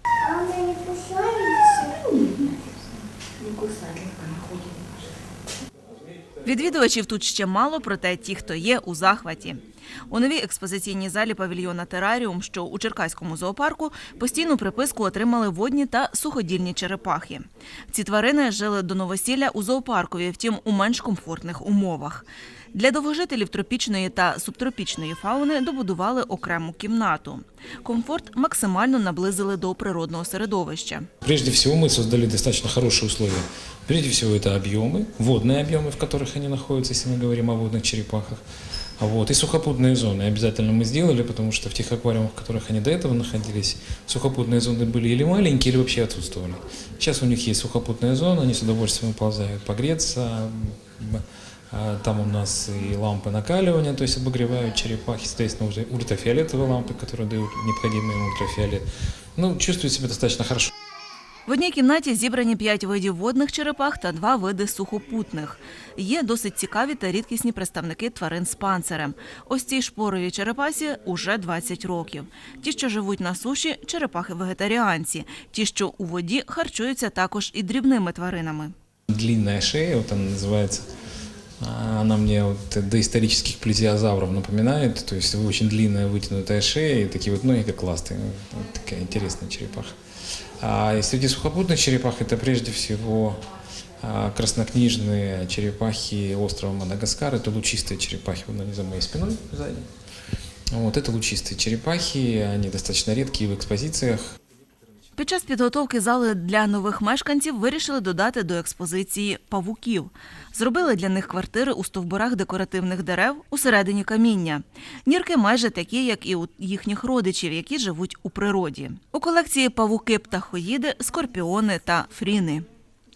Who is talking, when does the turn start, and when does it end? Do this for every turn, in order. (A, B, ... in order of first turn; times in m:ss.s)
0:00.2-0:05.2 A
0:06.4-0:31.1 B
0:31.2-0:38.4 C
0:39.0-0:58.8 C
0:59.4-1:00.7 C
1:01.5-1:18.7 B
1:19.1-1:20.8 C
1:21.6-1:30.0 C
1:30.6-1:33.4 C
1:34.0-1:39.9 C
1:40.7-1:44.2 C
1:45.2-2:02.7 B